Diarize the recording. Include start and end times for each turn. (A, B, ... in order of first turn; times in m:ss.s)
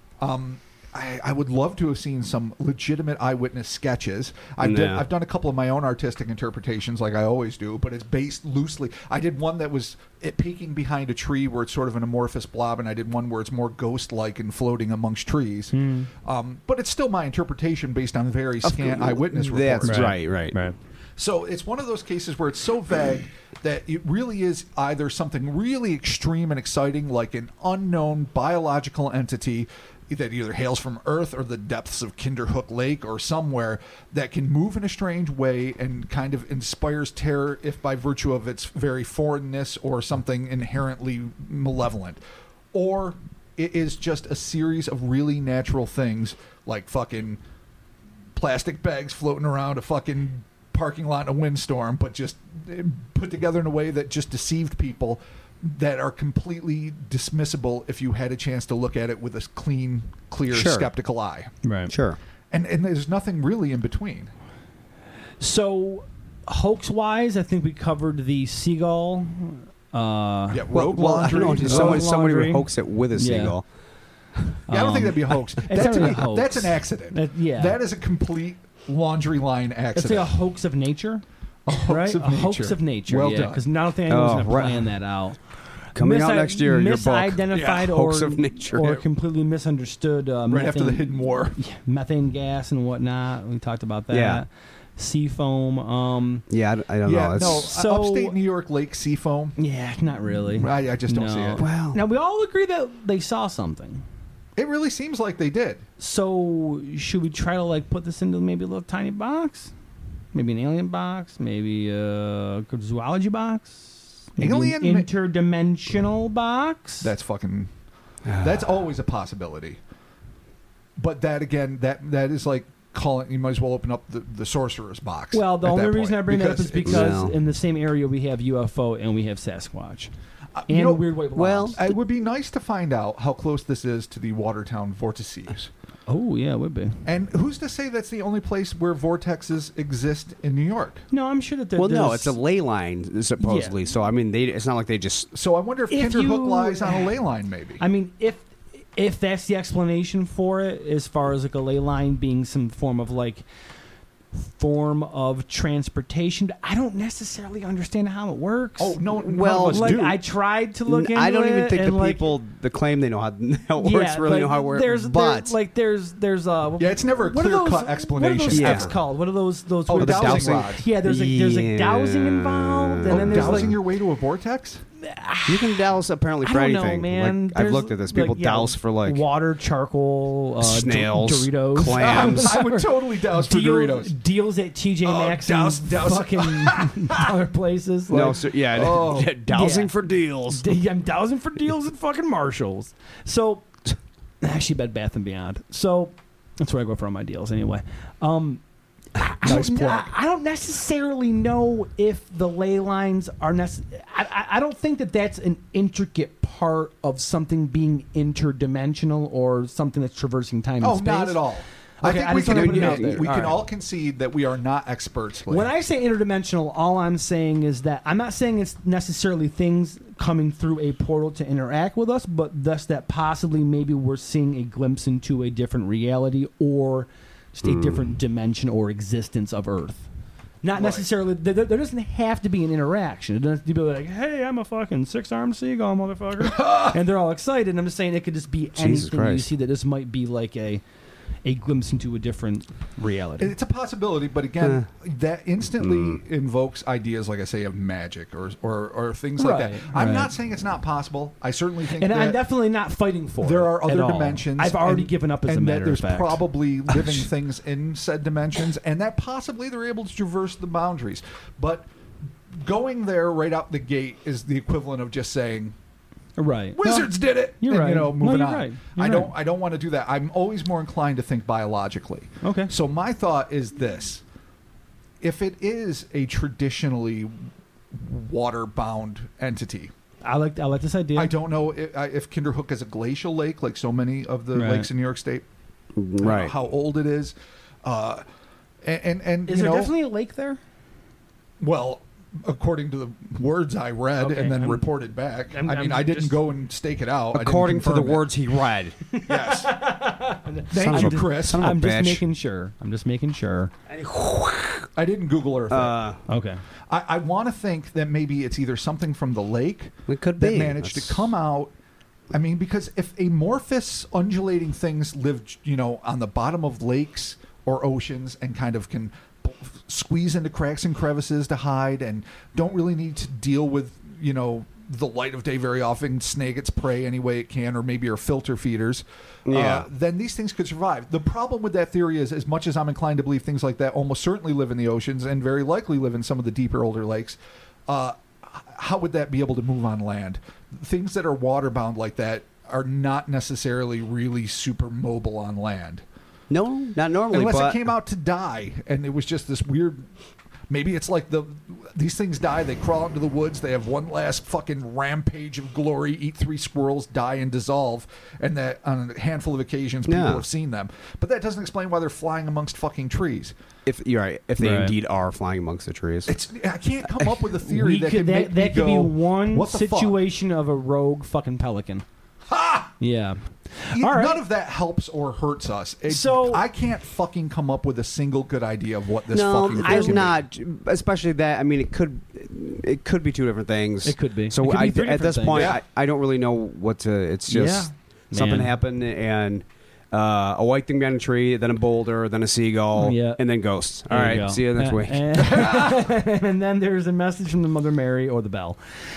0:00.2-0:20.2 A
0:04.6-0:05.0 B
0:15.7-0:16.1 C
0:18.6-0:20.6 B
0:19.8-0:20.8 C
0:21.2-0:42.2 A
0:42.7-0:47.4 A
0:48.4-1:01.5 A
1:00.5-1:00.9 B
1:01.6-1:01.9 C
1:01.9-1:02.2 B
1:02.5-1:04.3 A
1:05.4-1:13.6 C
1:10.5-1:12.1 A
1:10.7-1:13.6 B
1:14.7-1:17.8 C
1:14.7-1:20.3 A
1:15.9-1:16.1 B
1:20.0-1:21.2 C
1:21.7-1:23.6 A
1:21.9-1:36.4 C
1:24.1-1:24.9 B
1:26.0-1:29.0 B
1:27.5-1:27.9 A
1:30.5-1:31.6 A
1:34.1-1:34.4 B
1:36.5-1:37.7 B
1:37.0-1:39.6 A
1:37.4-1:38.4 C
1:39.6-1:44.0 C
1:40.5-1:41.6 A
1:41.6-1:42.0 B
1:44.6-1:45.8 A
1:46.0-1:49.7 C
1:50.3-1:57.1 C
1:54.4-1:55.1 A
1:57.0-1:57.7 A
1:58.3-1:58.7 B
1:58.4-1:59.8 A
2:01.0-2:07.2 A
2:05.3-2:10.1 C
2:06.8-2:07.3 B
2:10.6-2:11.1 A
2:10.7-2:11.9 C
2:11.4-2:11.8 B
2:11.8-2:15.7 A
2:16.1-2:17.0 C
2:17.0-2:21.0 A
2:21.1-2:22.4 C
2:21.8-2:25.3 B
2:23.4-2:23.7 C
2:25.3-2:27.8 A
2:25.9-2:27.1 C
2:27.8-2:33.4 C
2:34.4-2:39.0 C
2:38.8-2:40.2 A
2:39.2-2:40.2 B
2:39.7-2:42.4 C
2:40.9-2:45.6 B
2:43.8-2:53.8 C
2:46.8-2:49.0 A
2:48.5-2:48.9 B
2:49.9-2:50.8 A
2:50.0-2:53.8 B
2:53.1-2:54.8 A
2:55.0-2:55.8 C
2:55.5-2:59.2 B
2:56.4-3:08.4 C
3:00.6-3:02.6 B
3:02.0-3:04.2 A
3:05.0-3:07.2 A
3:08.1-3:10.8 B
3:08.1-3:09.4 A
3:09.5-3:09.9 C
3:10.5-3:13.7 C
3:14.4-3:18.6 C
3:19.2-3:31.5 C
3:19.4-3:20.1 A
3:30.8-3:35.7 A
3:32.0-3:33.6 C
3:32.4-3:33.3 B
3:35.5-3:50.1 C
3:47.7-3:48.0 B
3:50.6-4:00.8 C
3:50.8-3:51.0 A
3:56.4-3:57.0 A
3:58.8-3:59.5 B
4:01.4-4:03.5 C
4:03.4-4:12.4 A
4:05.8-4:06.2 B
4:09.4-4:10.3 C
4:11.9-4:17.2 C
4:13.4-4:21.9 A
4:22.5-4:25.8 A
4:26.4-4:29.3 C
4:26.7-4:34.2 A
4:32.4-4:32.7 C
4:35.2-4:39.9 A
4:40.2-4:41.3 C
4:41.2-4:45.5 A
4:44.5-4:44.9 C
4:46.0-4:46.5 B
4:46.2-4:48.2 A
4:48.8-4:49.9 A
4:49.5-4:50.6 C
4:51.6-4:58.3 A
4:54.2-4:54.8 C
4:55.5-4:56.4 C
4:57.3-4:59.0 B
4:59.1-5:03.7 C
4:59.3-4:59.8 A
5:00.7-5:01.8 A
5:00.8-5:02.2 B
5:03.9-5:04.9 B
5:05.0-5:06.0 A
5:05.7-5:06.2 B
5:06.3-5:06.6 C
5:06.9-5:11.7 A
5:10.1-5:11.3 B
5:12.3-5:46.0 A
5:29.5-5:29.8 B
5:46.5-5:47.8 B
5:47.3-5:50.0 A
5:50.7-6:03.5 A
6:00.1-6:00.4 B
6:03.9-6:06.3 B
6:04.6-6:04.9 C
6:06.3-6:10.2 A
6:07.6-6:12.0 C
6:12.5-6:12.9 A
6:13.0-6:14.4 C
6:13.9-6:20.4 A
6:16.1-6:16.6 C
6:19.3-6:35.5 B
6:19.8-6:20.3 C
6:24.0-6:25.7 C
6:25.5-6:25.8 A
6:27.5-6:28.7 C
6:33.0-6:33.4 C
6:34.1-6:38.8 C
6:35.5-6:36.1 A